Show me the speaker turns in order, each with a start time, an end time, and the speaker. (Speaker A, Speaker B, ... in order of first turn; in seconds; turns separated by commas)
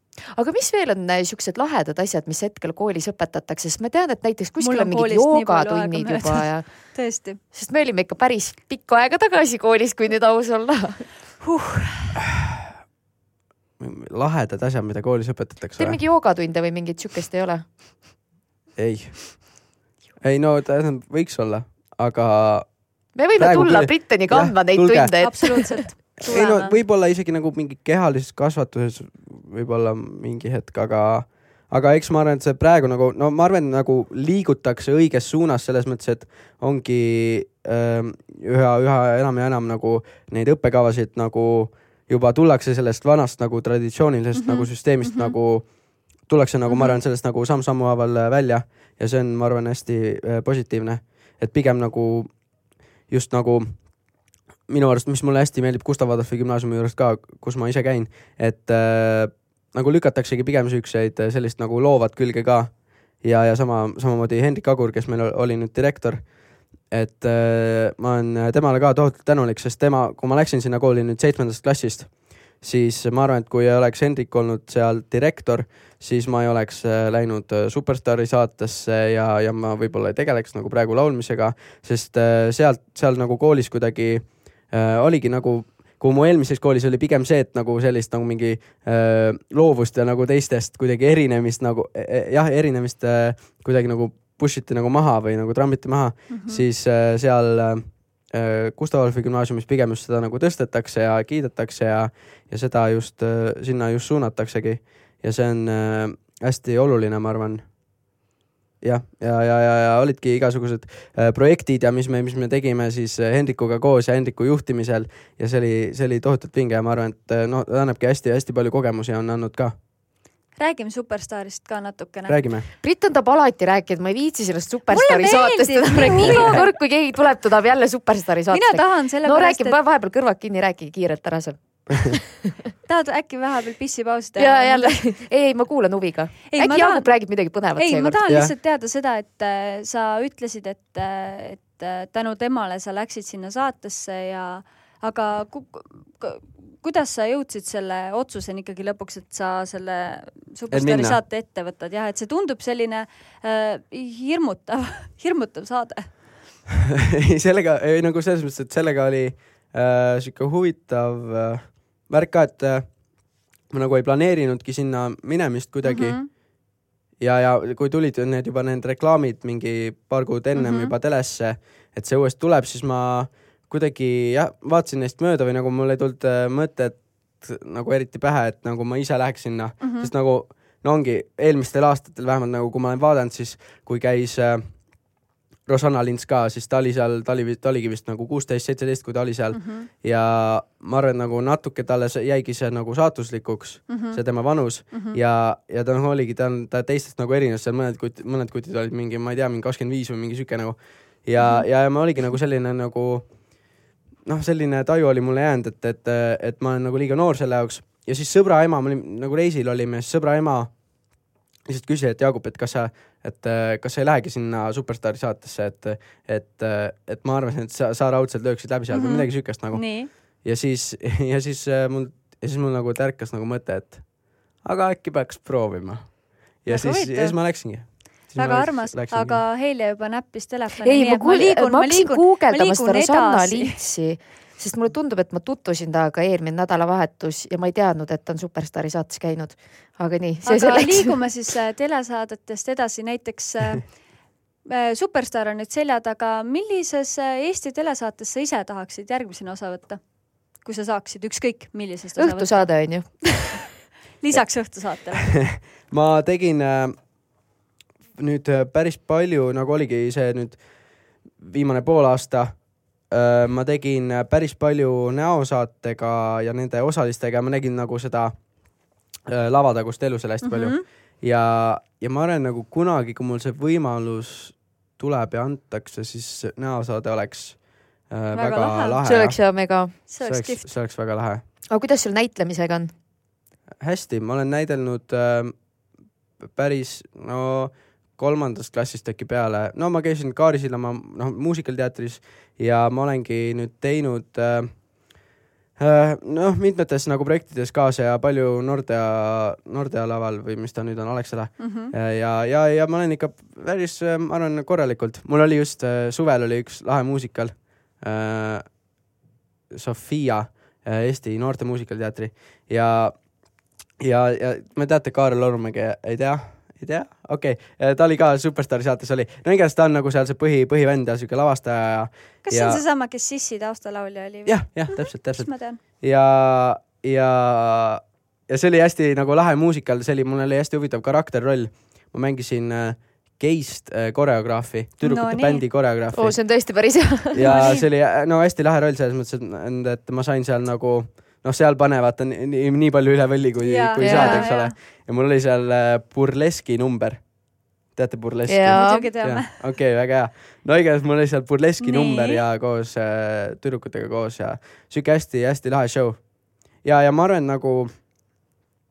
Speaker A: 0.3-11.1, Speaker B: 4.6-7.4, Speaker B: 11.4-12.2, Speaker C: 12.3-12.7, Speaker C: 13.8-16.0, Speaker A: 15.8-17.6, Speaker C: 18.8-19.7, Speaker C: 20.2-52.4, Speaker A: 23.1-25.8, Speaker B: 25.2-26.8, Speaker B: 44.4-45.4, Speaker B: 46.7-47.0, Speaker C: 53.1-54.0, Speaker C: 54.7-66.2, Speaker C: 66.9-107.7, Speaker B: 96.3-96.6, Speaker C: 108.8-119.8, Speaker B: 120.6-122.4, Speaker C: 122.3-122.7, Speaker A: 122.8-132.5, Speaker B: 124.9-126.7, Speaker C: 126.2-126.6, Speaker B: 128.5-129.8, Speaker B: 132.9-135.0, Speaker A: 134.4-138.2, Speaker B: 136.5-156.2, Speaker C: 138.3-138.5, Speaker C: 150.7-151.2, Speaker C: 157.0-166.2, Speaker B: 165.8-166.3, Speaker C: 167.2-185.1, Speaker B: 170.6-170.9, Speaker B: 179.8-180.1, Speaker C: 185.6-203.7, Speaker B: 189.5-189.9, Speaker B: 193.9-194.2, Speaker B: 194.8-195.2, Speaker B: 201.4-201.7, Speaker C: 204.2-210.8, Speaker C: 211.7-229.4, Speaker B: 218.9-220.1, Speaker B: 226.7-233.8, Speaker A: 230.8-241.2, Speaker B: 240.4-244.1, Speaker B: 244.6-253.4, Speaker A: 252.2-253.7, Speaker B: 254.2-255.6, Speaker C: 255.4-257.0, Speaker C: 258.2-268.4, Speaker C: 269.3-281.4, Speaker B: 270.4-270.9, Speaker B: 278.3-279.0, Speaker A: 279.0-280.0, Speaker B: 280.1-280.7, Speaker A: 281.7-282.9, Speaker C: 283.8-285.7, Speaker C: 286.4-295.2, Speaker C: 295.8-308.8, Speaker B: 301.6-301.9, Speaker C: 309.7-313.2, Speaker C: 314.0-322.8, Speaker B: 322.5-325.8, Speaker C: 324.5-336.4, Speaker B: 335.0-335.6, Speaker A: 336.1-337.6, Speaker C: 337.4-357.9, Speaker B: 337.4-337.9, Speaker B: 343.6-344.7, Speaker A: 344.0-344.5, Speaker A: 348.5-349.1, Speaker B: 348.7-349.6, Speaker B: 351.8-352.4